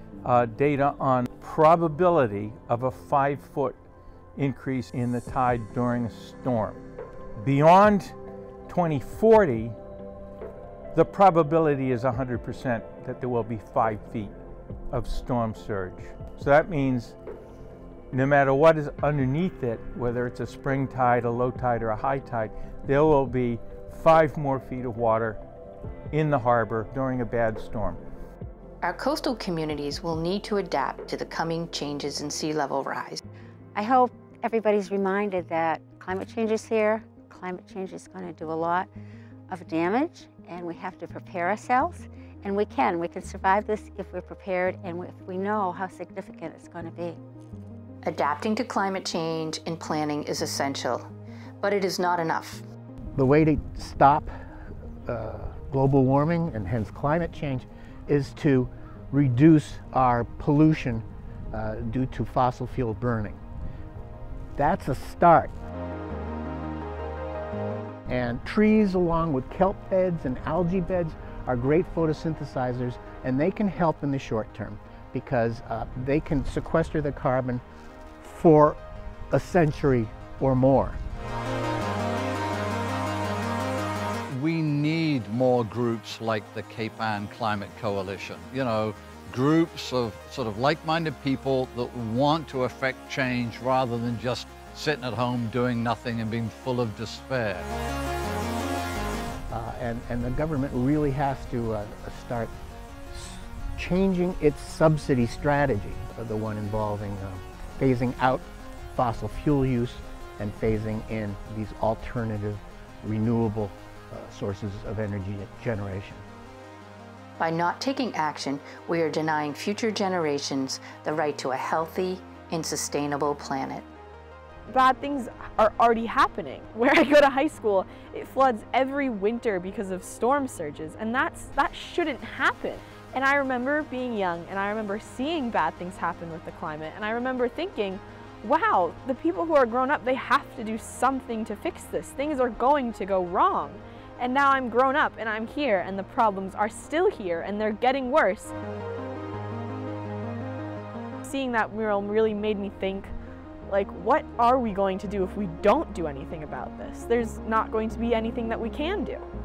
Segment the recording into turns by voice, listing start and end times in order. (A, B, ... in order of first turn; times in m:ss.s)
0:00.2-0:03.8 A
0:04.4-0:06.8 A
0:07.4-0:08.2 A
0:08.7-0:09.8 A
0:10.9-0:14.3 A
0:14.9-0:17.2 A
0:18.1-0:25.4 A
0:26.1-0:28.0 A
0:28.8-0:33.2 B
0:33.7-0:38.9 C
0:39.5-0:47.2 C
0:48.0-0:51.1 B
0:51.6-0:52.6 B
0:53.2-0:54.3 D
0:55.0-1:03.4 D
1:04.6-1:05.5 D
1:08.1-1:17.6 D
1:18.2-1:18.8 D
1:19.3-1:21.0 D
1:24.3-1:37.7 E
1:39.5-1:42.5 D
1:43.1-1:56.2 D
1:57.4-2:03.9 B
2:04.7-2:28.5 F
2:31.2-2:33.1 F
2:33.7-2:39.3 F